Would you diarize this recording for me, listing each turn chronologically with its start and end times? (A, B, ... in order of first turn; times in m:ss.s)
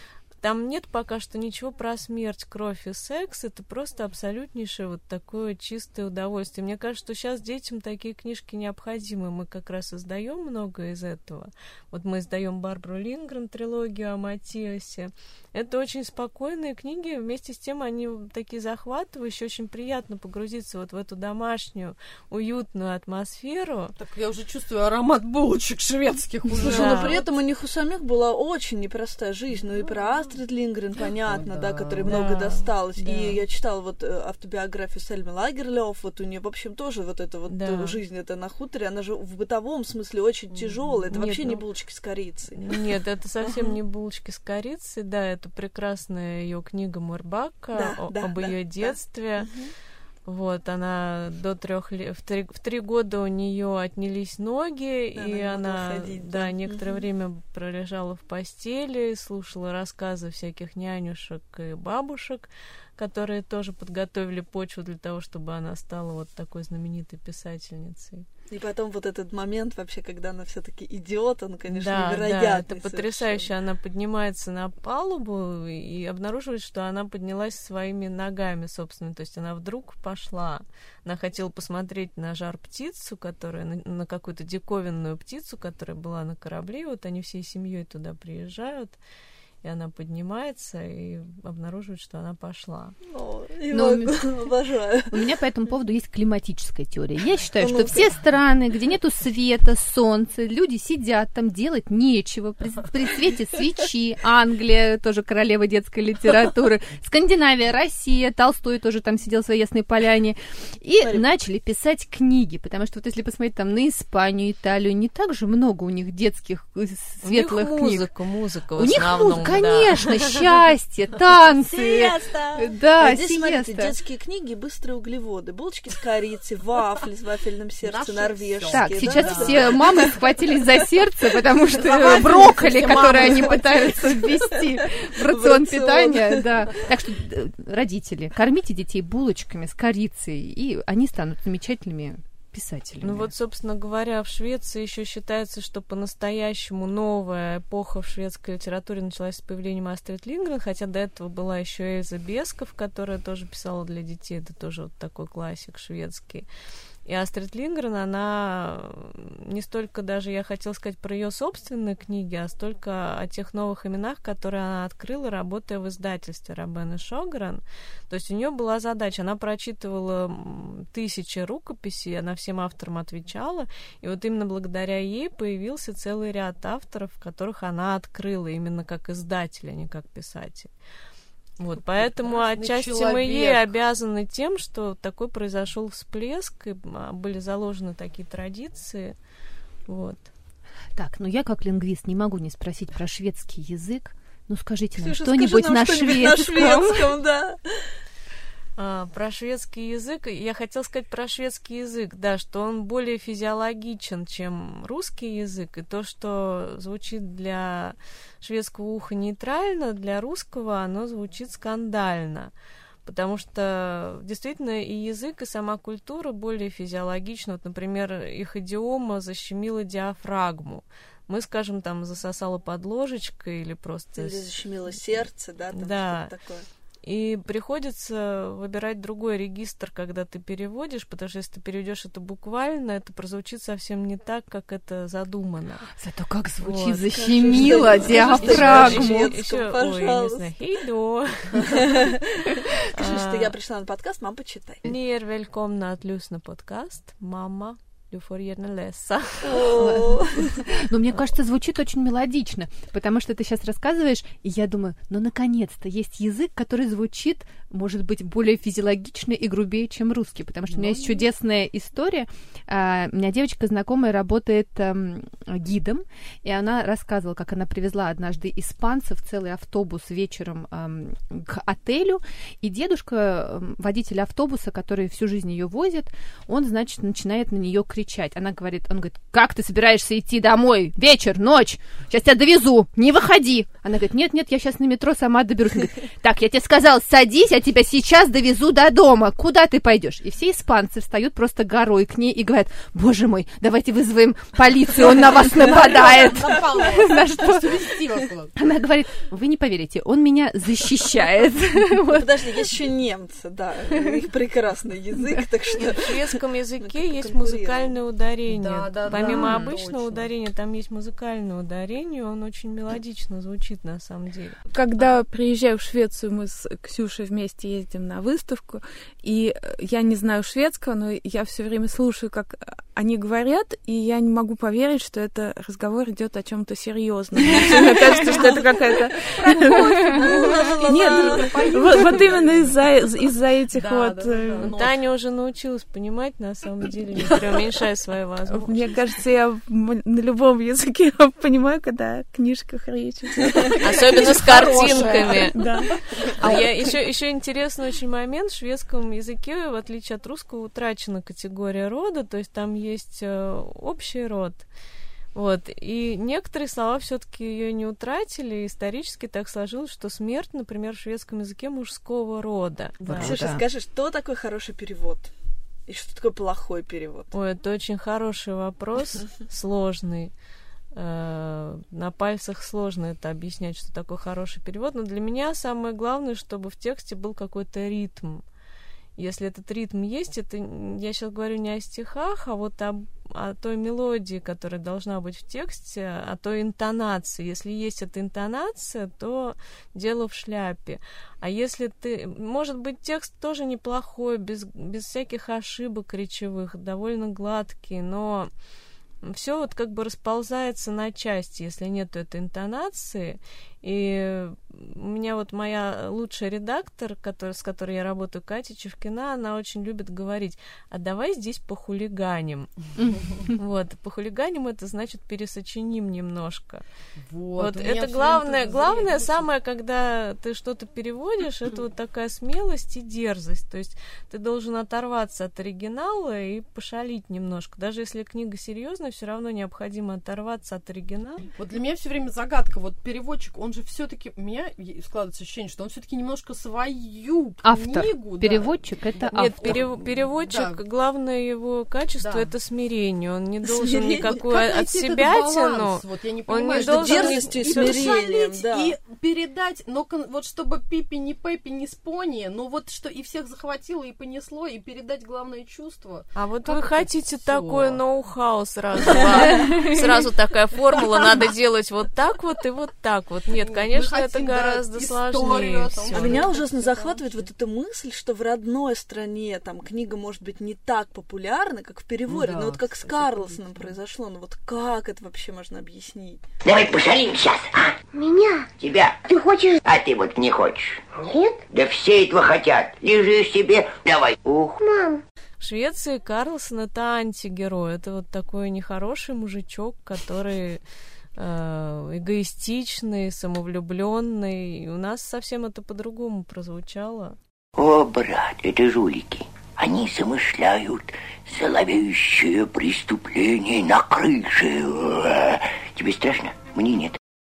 0:00.4-0:24.0 A
0:24.0-0:27.2 B
0:26.6-0:42.9 C
0:26.6-0:27.3 A
0:31.1-0:32.2 B
0:32.0-0:33.4 A
0:37.5-0:38.0 A
0:40.5-0:41.6 A
0:42.6-0:49.5 A
0:43.4-0:43.8 C
0:47.7-0:49.7 C
0:50.2-1:08.3 A
0:55.2-0:57.0 C
1:08.5-1:13.5 C
1:11.7-1:29.0 A
1:29.6-1:33.0 A
1:33.1-1:35.3 C
1:33.7-1:34.4 D
1:35.1-1:58.1 D
1:37.6-1:38.1 C
1:57.2-2:00.3 A
1:58.8-2:03.9 D
2:01.7-2:10.1 C
2:07.8-2:09.9 B
2:08.7-2:23.3 D
2:11.7-2:14.6 B
2:15.1-2:16.6 C
2:23.0-2:36.5 A
2:37.1-3:00.7 A
3:01.6-3:09.2 A
3:01.8-3:03.8 B
3:09.9-3:10.3 A
3:10.9-3:17.1 D
3:15.0-3:17.9 C
3:18.8-3:32.5 A
3:33.0-3:46.3 A
3:44.2-3:46.7 C
3:47.0-3:55.9 A
3:55.9-3:59.3 D
3:56.6-4:01.9 A
3:57.1-4:00.5 C
3:58.1-3:59.1 B
4:01.6-4:04.9 C
4:02.9-4:03.5 A
4:04.8-4:10.2 A
4:09.4-4:10.6 C
4:09.7-4:58.0 D
4:20.7-4:21.2 B
4:55.7-4:58.5 B
4:58.6-5:02.5 D
5:02.1-5:08.0 C
5:05.8-5:15.0 A
5:08.5-5:10.3 B
5:09.1-5:09.7 D
5:14.7-5:34.7 E
5:27.6-5:32.9 B
5:30.0-5:31.9 C
5:33.7-5:35.0 B
5:34.6-5:38.9 A
5:37.2-5:37.7 B
5:38.5-5:46.9 E
5:43.6-5:46.8 B
5:43.8-5:45.6 A
5:46.4-5:54.7 A
5:55.3-6:03.5 A
6:03.0-6:03.6 D
6:03.2-6:05.3 C
6:05.9-6:07.3 C
6:07.3-6:10.3 A
6:10.9-6:18.4 A
6:19.2-6:38.5 A
6:39.2-6:52.7 A
6:53.2-6:53.4 B
6:53.4-6:56.8 A
6:57.2-6:59.5 B
6:57.6-7:11.5 A
7:11.5-7:20.8 B
7:17.6-7:19.8 D
7:19.3-7:28.2 A
7:22.2-7:22.5 B
7:23.7-7:24.4 C
7:24.2-7:38.0 B
7:26.7-7:29.0 C
7:36.3-7:46.6 A
7:39.1-7:40.2 B
7:40.8-7:41.5 B
7:43.5-7:47.5 B
7:46.1-7:56.4 C
7:52.3-7:54.0 B
7:56.6-7:57.9 F
7:58.1-7:58.7 G
7:58.7-7:59.2 F
7:59.3-7:59.8 G
7:59.8-8:01.1 F
8:01.2-8:01.6 G
8:01.7-8:04.8 F
8:04.8-8:05.2 G
8:05.6-8:10.8 A
8:11.4-8:17.4 A
8:17.8-8:27.2 F